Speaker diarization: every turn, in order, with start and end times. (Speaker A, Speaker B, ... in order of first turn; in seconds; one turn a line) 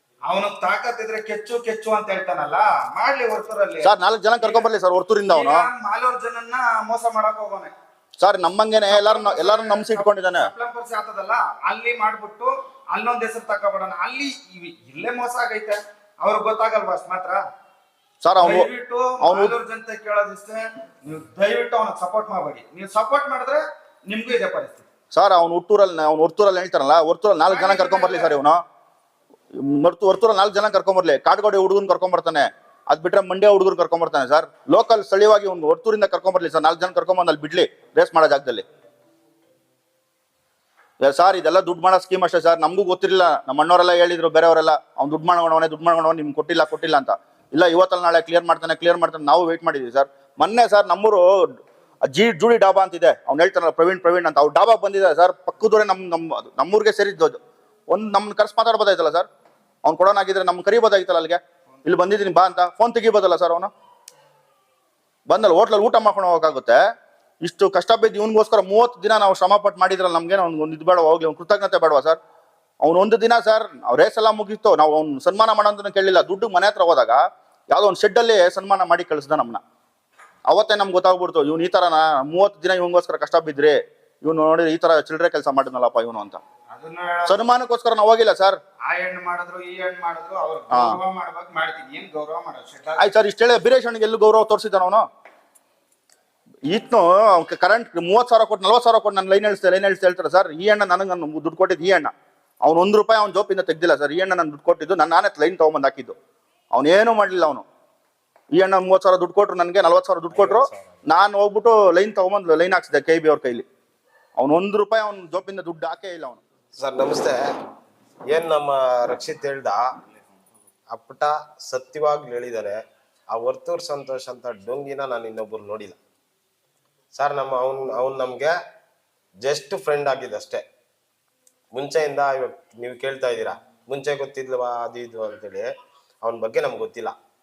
Speaker A: 0.2-3.9
Speaker B: 3.8-5.6
Speaker A: 4.4-4.7
Speaker A: 5.3-7.7
Speaker B: 8.2-10.5
Speaker A: 8.9-17.4
Speaker B: 18.2-18.7
Speaker A: 18.4-24.8
Speaker B: 19.2-19.6
Speaker B: 25.1-28.6
Speaker A: 27.5-28.3
Speaker B: 29.5-38.6
Speaker B: 41.0-51.5
Speaker B: 52.0-57.4
Speaker B: 57.9-59.3
Speaker B: 59.8-63.7
Speaker B: 65.3-66.8
Speaker B: 67.4-72.2
Speaker B: 72.8-79.6
Speaker B: 80.5-86.4
Speaker A: 86.7-87.3
Speaker B: 87.3-88.6
Speaker A: 88.8-93.1
Speaker B: 90.7-91.0
Speaker B: 93.0-95.0
Speaker B: 96.7-106.1
Speaker B: 106.7-107.6
Speaker B: 108.5-113.7
Speaker C: 110.3-111.0
Speaker B: 114.4-116.4
Speaker C: 116.8-117.4
Speaker C: 118.3-119.8
Speaker C: 120.9-126.0
Speaker C: 127.1-128.5
Speaker C: 129.4-130.6
Speaker C: 131.7-137.2